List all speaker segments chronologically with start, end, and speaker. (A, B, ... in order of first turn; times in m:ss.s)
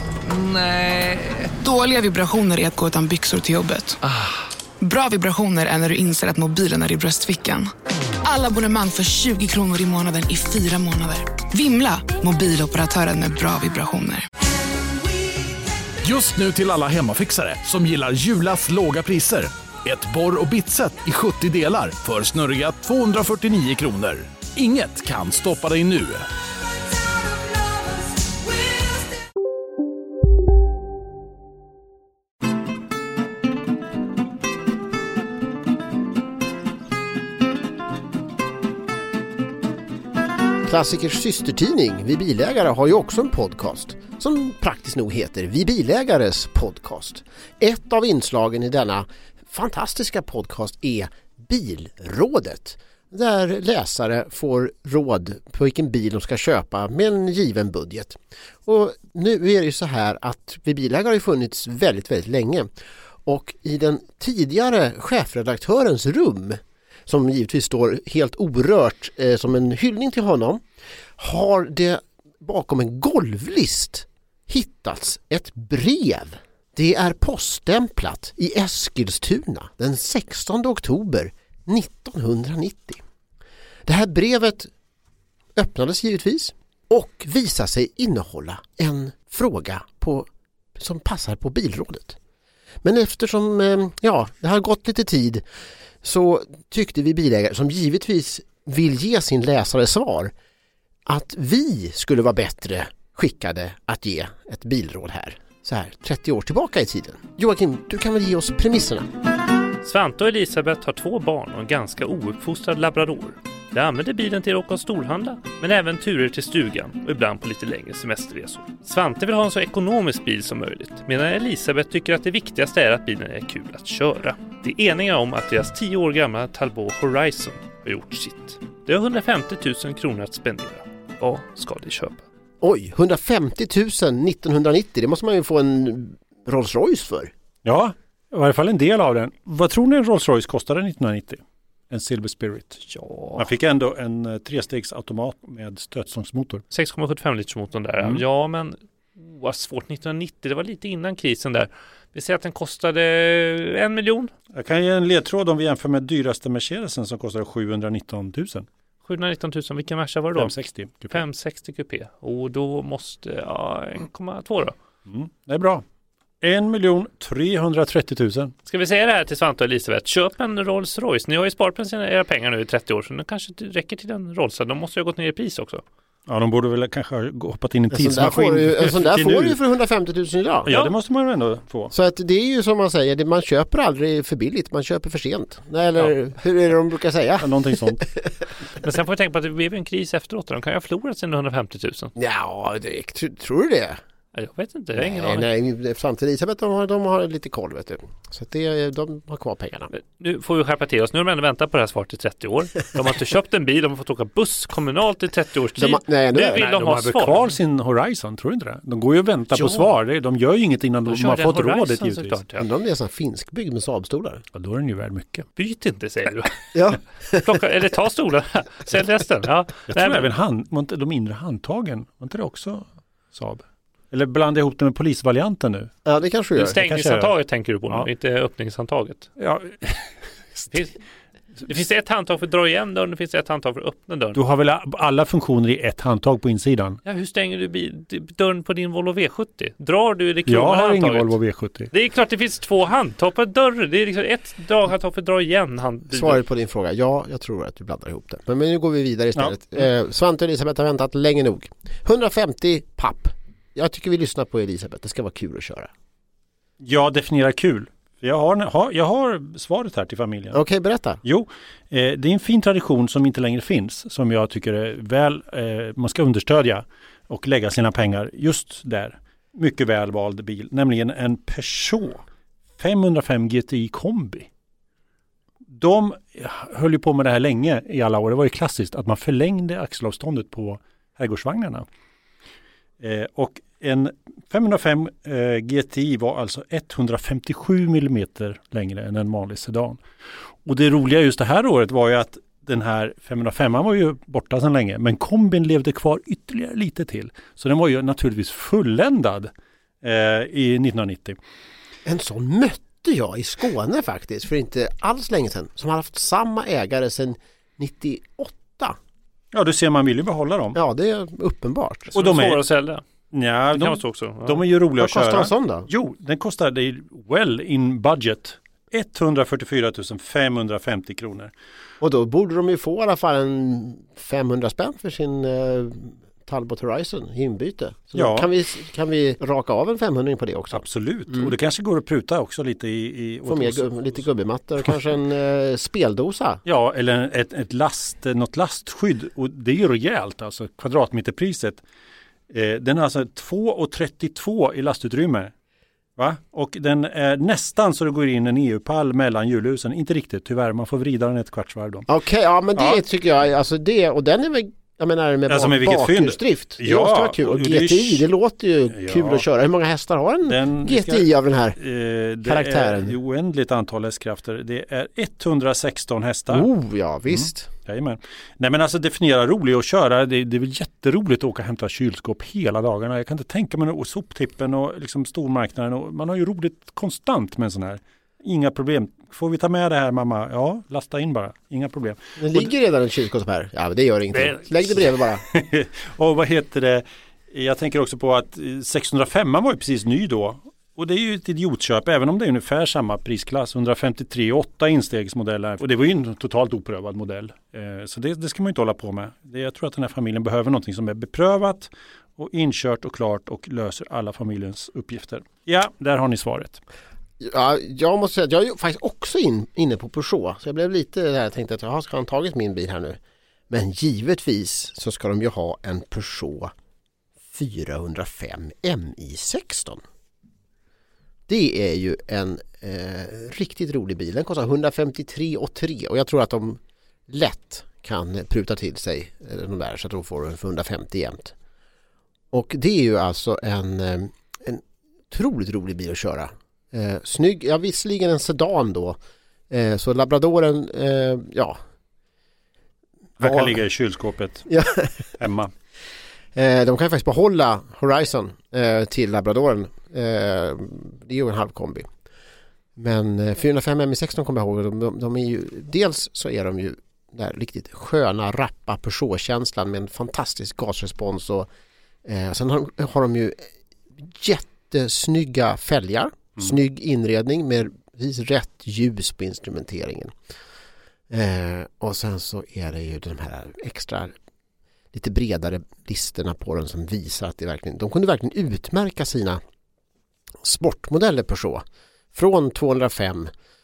0:01.5-0:04.0 A
0:04.8-0:07.7 A
0:08.2-0:14.2 A
0:16.0-0:26.2 B
0:40.6-1:02.7 C
1:03.2-1:10.6 C
1:11.2-1:23.0 C
1:23.8-1:24.7 C
1:25.6-1:32.2 C
1:32.8-1:35.4 C
1:36.0-1:40.3 C
1:41.0-1:49.1 C
1:49.8-2:12.2 D
2:12.6-2:17.3 C
2:17.6-2:22.8 E
2:22.8-2:23.5 D
2:23.4-2:26.6 E
2:26.7-2:34.3 D
2:34.5-2:38.7 E
2:39.0-2:40.6 D
2:40.4-2:41.2 E
2:41.1-2:44.7 D
2:45.1-2:45.8 E
2:46.4-2:48.5 E
2:48.7-2:55.8 D
2:56.3-2:59.6 E
2:57.9-3:00.7 C
3:00.7-3:01.9 E
3:00.7-3:00.9 D
3:01.9-3:08.4 C
3:07.4-3:08.0 E
3:08.8-3:12.1 D
3:12.2-3:14.0 C
3:14.3-3:15.5 D
3:15.0-3:19.9 C
3:19.9-3:27.5 D
3:25.8-3:26.6 C
3:26.5-3:32.4 E
3:29.5-3:30.0 D
3:31.1-3:32.7 D
3:32.6-3:34.4 C
3:34.5-3:35.4 E
3:35.5-3:36.6 D
3:36.7-3:37.5 C
3:37.4-3:40.3 D
3:39.9-3:45.9 E
3:46.0-3:46.8 C
3:46.6-3:49.3 D
3:46.6-3:47.3 E
3:49.4-3:50.8 E
3:51.7-3:54.4 D
3:54.3-3:57.0 E
3:57.0-4:01.3 D
4:00.5-4:01.9 E
4:01.9-4:06.4 D
4:06.1-4:15.9 C
4:16.8-4:20.6 E
4:20.5-4:21.2 C
4:21.2-4:32.2 E
4:32.8-4:34.5 E
4:35.7-4:41.8 E
4:43.0-4:50.0 E
4:50.6-4:59.5 E
5:00.0-5:01.4 E
5:02.0-5:09.0 C
5:09.5-5:10.8 E
5:10.7-5:12.1 C
5:12.1-5:13.0 D
5:12.1-5:12.7 E
5:13.3-5:21.5 E
5:13.7-5:14.6 D
5:15.0-5:15.9 C
5:22.0-5:31.5 C
5:28.1-5:28.5 E
5:30.7-5:34.2 E
5:33.4-5:36.6 C
5:36.6-5:41.8 E
5:42.5-5:45.5 E
5:46.2-5:52.1 E
5:52.1-6:01.8 C
5:52.8-5:53.0 E
5:55.5-5:58.2 E
5:58.9-5:59.4 E
6:00.4-6:06.7 E
6:02.4-6:03.2 C
6:06.5-6:07.7 C
6:07.3-6:22.7 E
6:22.4-6:25.4 C
6:24.3-6:46.8 E
6:47.4-6:53.2 C
6:53.7-6:56.7 C
6:57.5-7:00.0 C
7:01.5-7:11.5 C
7:12.5-7:19.2 C
7:19.7-7:21.8 C
7:23.4-7:24.7 E
7:23.4-7:23.8 C
7:24.7-7:25.3 C
7:25.4-7:25.7 E
7:26.5-7:32.1 C
7:33.0-7:41.7 C
7:42.2-7:50.3 C
7:51.3-7:54.3 C
7:55.1-7:59.6 C
8:00.6-8:03.5 C